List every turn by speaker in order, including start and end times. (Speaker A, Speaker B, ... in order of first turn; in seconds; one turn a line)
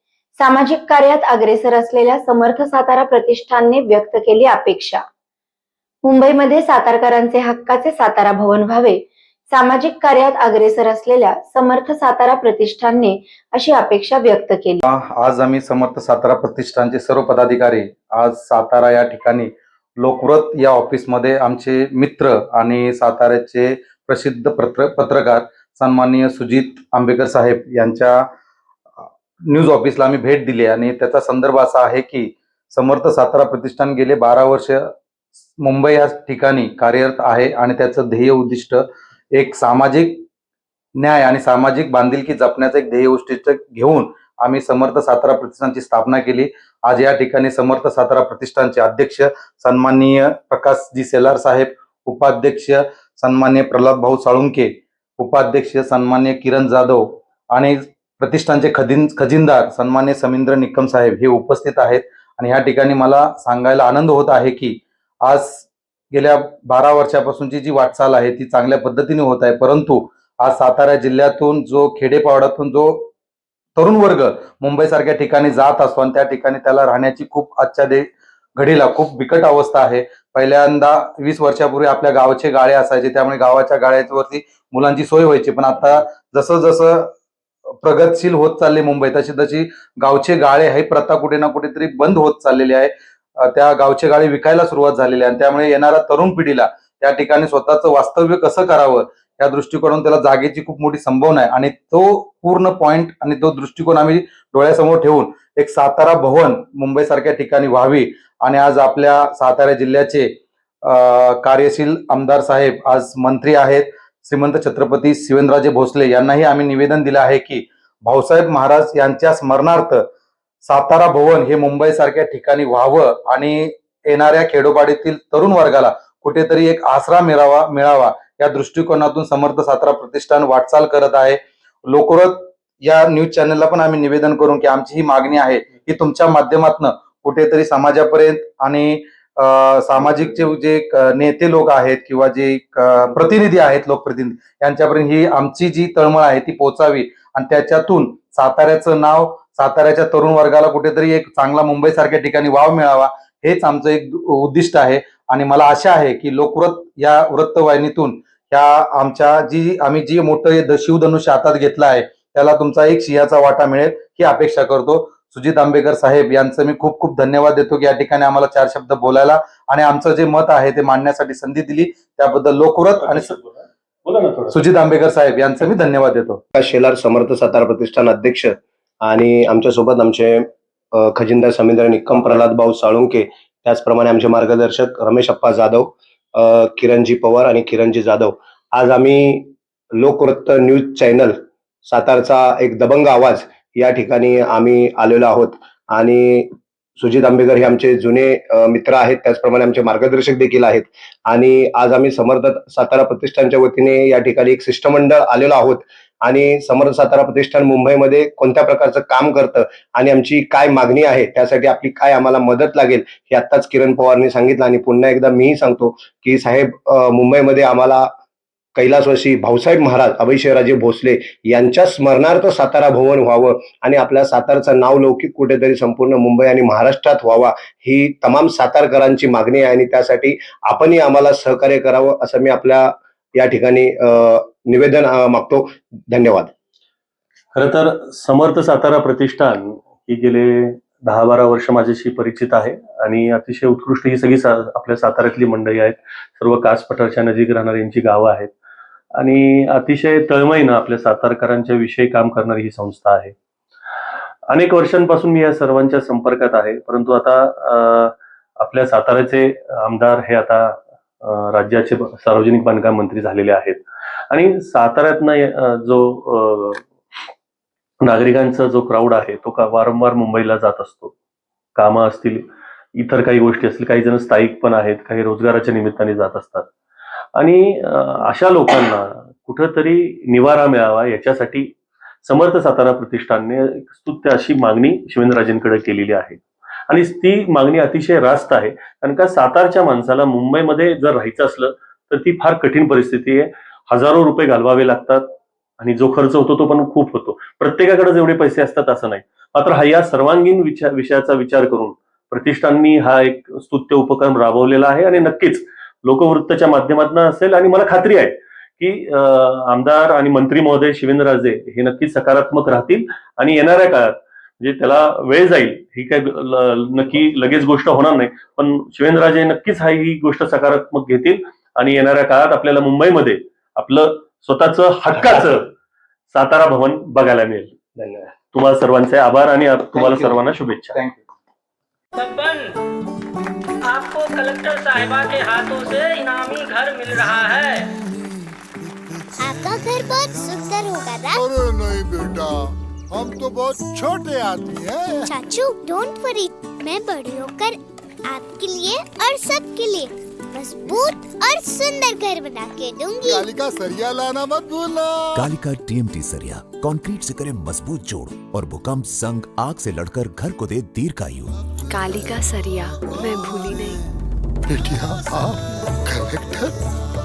Speaker A: 0.4-5.0
Speaker A: 6.0-14.8
Speaker B: 14.8-28.2
Speaker B: 29.5-34.9
Speaker B: 35.6-38.8
Speaker B: 39.4-40.2
Speaker B: 41.0-73.1
Speaker B: 73.8-87.1
Speaker B: 87.8-110.3
Speaker B: 110.8-120.0
Speaker B: 120.6-173.3
Speaker C: 173.0-174.6
Speaker B: 174.5-176.4
Speaker D: 176.6-218.1
Speaker D: 218.8-236.5
Speaker C: 237.6-248.5
Speaker C: 249.2-253.3
Speaker C: 254.5-266.9
Speaker C: 268.0-271.1
Speaker C: 271.8-276.7
Speaker C: 277.4-325.7
Speaker C: 326.3-327.7
Speaker D: 328.0-328.3
Speaker C: 328.5-331.0
Speaker B: 329.9-330.4
Speaker B: 330.9-331.2
Speaker E: 332.2-332.8
Speaker E: 333.9-337.8
Speaker F: 339.4-341.4
Speaker G: 341.3-345.3
Speaker F: 345.3-353.5
Speaker G: 353.3-355.5
Speaker H: 355.4-361.6
Speaker I: 361.9-364.0
Speaker G: 364.7-366.7